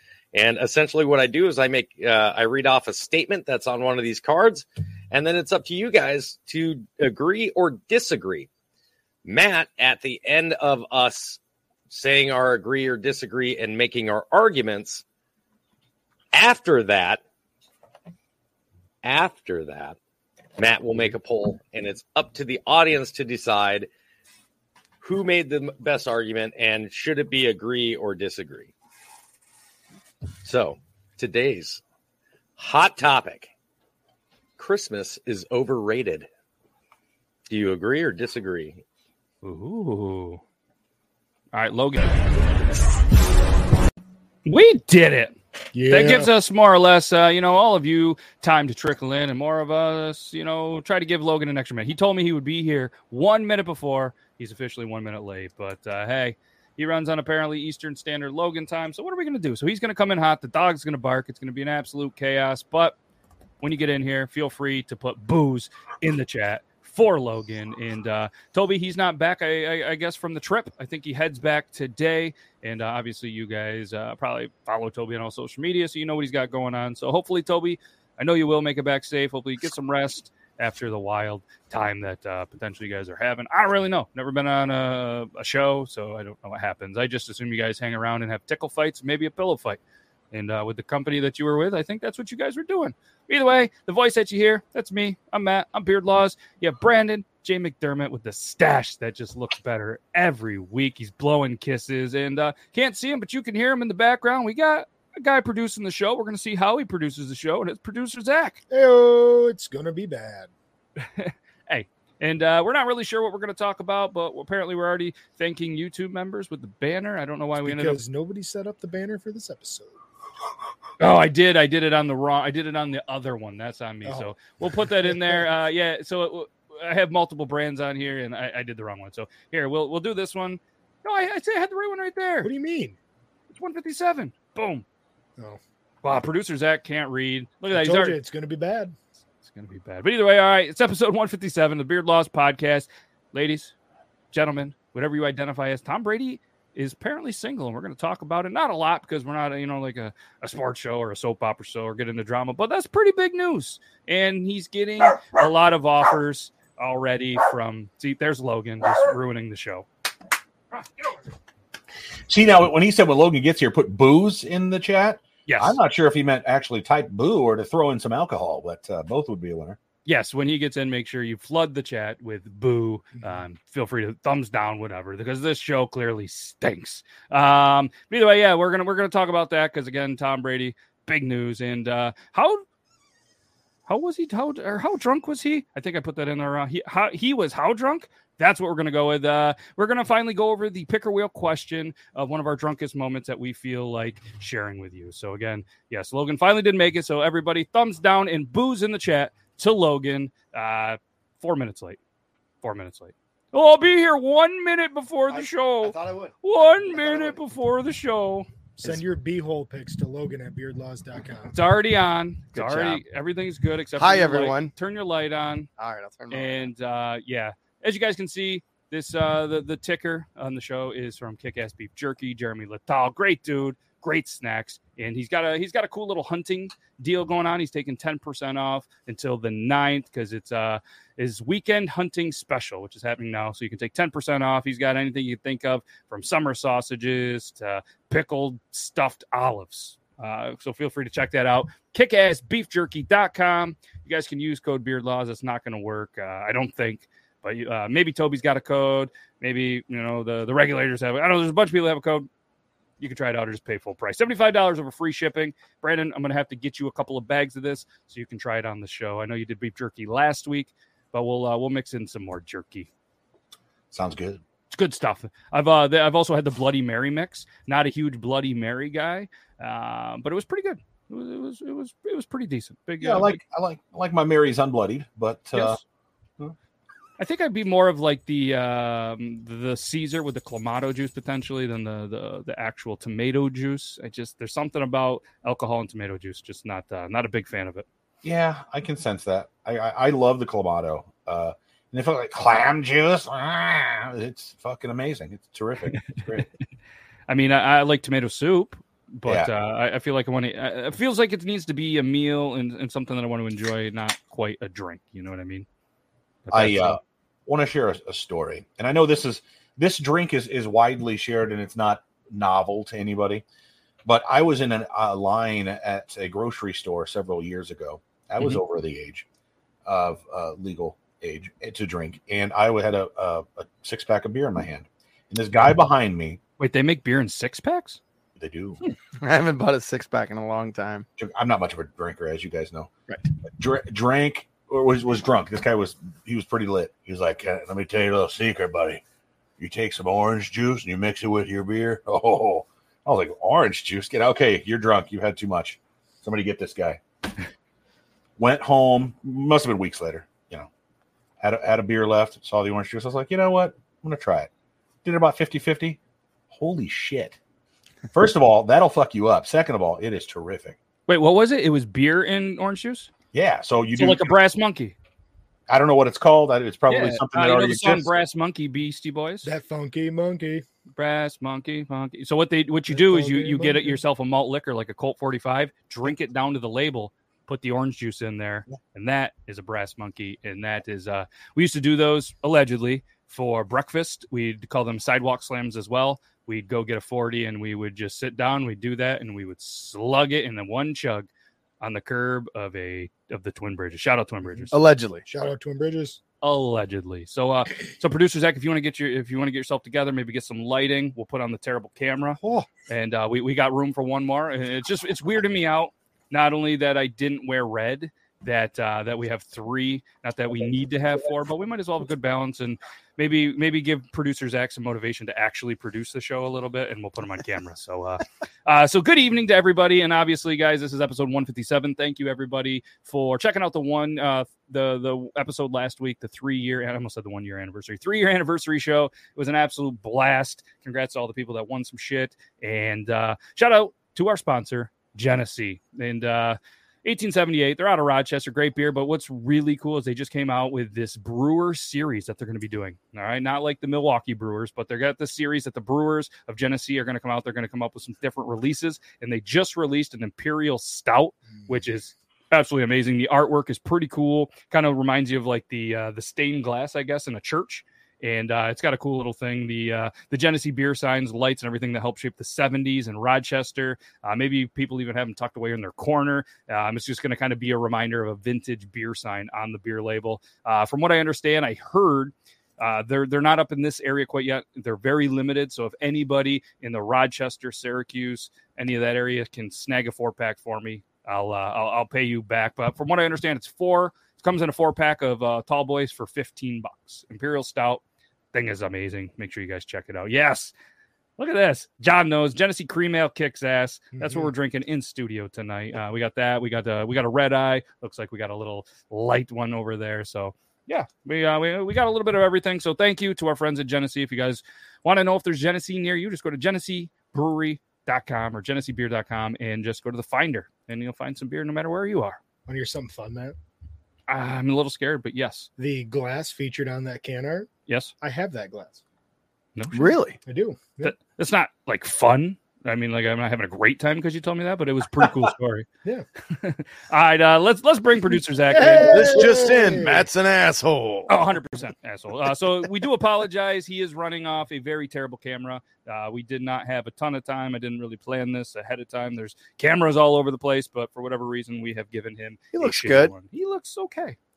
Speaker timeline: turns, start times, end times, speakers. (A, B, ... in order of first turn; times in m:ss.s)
0:00.3-0:08.5 A
0:09.2-0:15.0 A
0:16.3-0:17.2 A
0:19.0-0:20.0 A
0:20.6-0:23.9 A
0:25.0-0:28.7 A
0:30.4-0:31.8 A
0:32.6-0:33.5 A
0:34.6-0:36.3 A
0:37.5-0:38.8 A
0:39.4-0:40.4 B
0:41.5-0:42.3 B
0:44.4-0:45.4 B
0:45.7-0:46.3 C
0:45.9-1:03.0 B
1:03.6-1:29.8 B
1:30.3-1:48.6 B
1:48.7-1:50.5 C
1:51.0-1:58.0 B
1:57.6-2:00.0 C
2:01.0-2:12.5 B
2:04.0-2:04.4 C
2:05.0-2:05.5 C
2:12.4-2:13.0 C
2:13.5-2:14.8 B
2:16.0-2:18.2 B
2:17.7-2:19.0 C
2:19.4-2:23.8 B
2:24.3-2:39.9 B
2:42.3-2:49.8 D
2:45.5-2:45.8 B
2:50.0-3:02.6 B
3:03.9-3:22.0 B
3:22.6-3:28.5 B
3:25.3-3:27.4 E
3:28.8-3:31.6 C
3:31.5-3:35.7 B
3:32.5-3:33.0 E
3:34.0-3:34.7 E
3:35.8-3:36.7 E
3:36.3-4:12.3 B
4:13.0-4:22.9 B
4:23.9-4:24.4 D
4:24.7-4:33.4 B
4:33.0-4:35.8 D
4:35.5-4:35.8 B
4:37.2-4:47.9 B
4:48.2-4:56.5 D
4:55.9-4:56.5 B
4:57.3-5:05.7 B
5:06.4-5:07.0 B
5:06.5-5:13.4 D
5:14.0-5:19.3 D
5:19.9-5:26.4 D
5:26.6-5:28.0 B
5:28.4-5:28.8 D
5:29.2-5:31.1 E
5:31.2-5:32.9 D
5:33.4-5:39.0 D
5:39.6-5:47.0 D
5:48.4-5:50.7 D
5:51.4-5:54.5 D
5:55.0-5:56.0 D
5:56.5-5:57.4 D
5:58.1-6:00.8 D
6:01.1-6:03.1 B
6:03.3-6:04.4 D
6:04.0-6:05.0 B
6:05.7-6:08.1 D
6:06.9-6:09.5 B
6:09.4-6:10.6 C
6:11.0-6:31.3 B
6:12.9-6:14.0 C
6:31.8-6:34.8 B
6:34.7-6:35.3 E
6:35.3-6:36.2 C
6:36.4-8:08.0 B
6:42.4-6:42.7 C
7:31.5-7:31.8 C
8:08.5-8:10.7 B
8:11.4-8:32.4 B
8:14.2-8:14.5 C
8:32.7-8:33.6 C
8:34.3-8:35.7 B
8:35.8-8:37.7 C
8:37.9-8:38.1 B
8:38.2-8:39.0 C
8:39.8-8:40.1 B
8:39.9-8:40.4 E
8:40.4-8:41.2 C
8:41.0-8:45.9 B
8:46.5-8:49.6 B
8:48.7-8:50.3 C
8:49.1-8:51.3 E
8:51.3-9:04.4 B
9:02.7-9:03.3 E